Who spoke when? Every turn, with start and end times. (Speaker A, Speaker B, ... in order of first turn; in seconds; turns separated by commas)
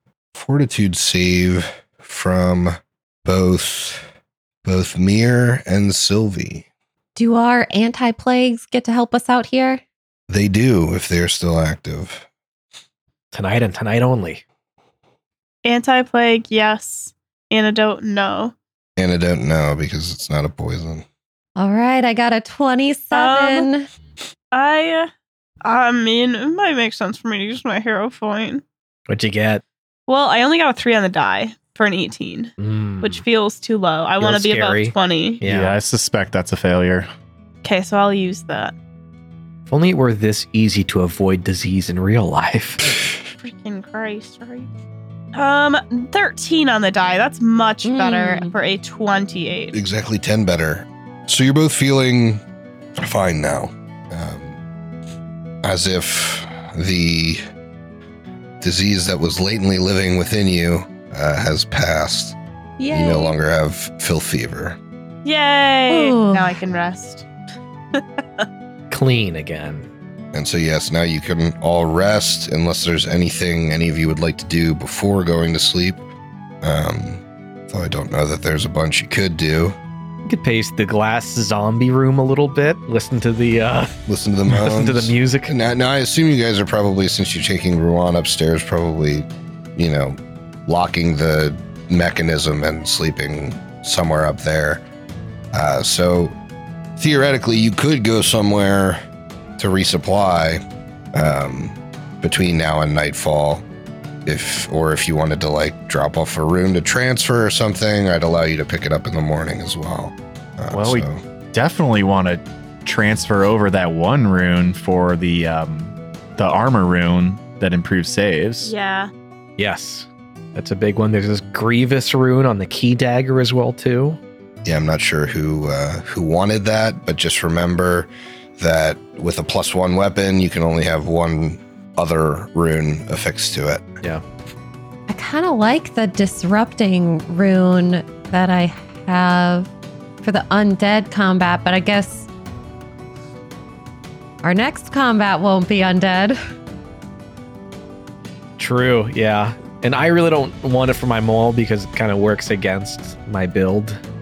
Speaker A: 0.3-4.0, Speaker A: 4.6-6.7, Speaker B: 7.2-9.8, Speaker A: 10.3-12.2, Speaker C: 13.3-14.4, Speaker D: 15.6-18.5, Speaker A: 19.0-21.0, Speaker B: 21.6-23.9, Speaker D: 23.1-23.7, Speaker D: 24.5-25.1, Speaker D: 25.6-28.6, Speaker C: 29.1-29.6, Speaker D: 30.1-35.4, Speaker C: 32.6-33.2, Speaker C: 34.2-35.8, Speaker E: 35.4-37.1, Speaker D: 37.6-38.7, Speaker C: 39.7-43.0, Speaker D: 43.4-44.7, Speaker D: 45.3-49.8, Speaker B: 47.9-48.5, Speaker A: 49.7-52.4, Speaker A: 53.0-54.6, Speaker A: 55.6-57.4, Speaker A: 58.6-62.4, Speaker B: 62.8-63.3, Speaker A: 62.9-64.8, Speaker D: 65.2-67.2, Speaker B: 65.9-66.6, Speaker D: 67.9-68.4, Speaker C: 68.9-69.9, Speaker A: 70.3-76.0, Speaker A: 76.6-79.8, Speaker C: 80.2-85.5, Speaker A: 84.1-94.8, Speaker A: 95.5-96.3, Speaker A: 97.0-99.0, Speaker A: 99.6-100.6, Speaker A: 101.1-103.6, Speaker A: 104.2-111.2, Speaker E: 110.7-118.7, Speaker D: 118.6-119.1, Speaker C: 119.6-124.2, Speaker A: 124.6-133.9, Speaker B: 135.1-139.7, Speaker B: 140.2-142.3, Speaker B: 144.4-146.4, Speaker C: 148.6-154.0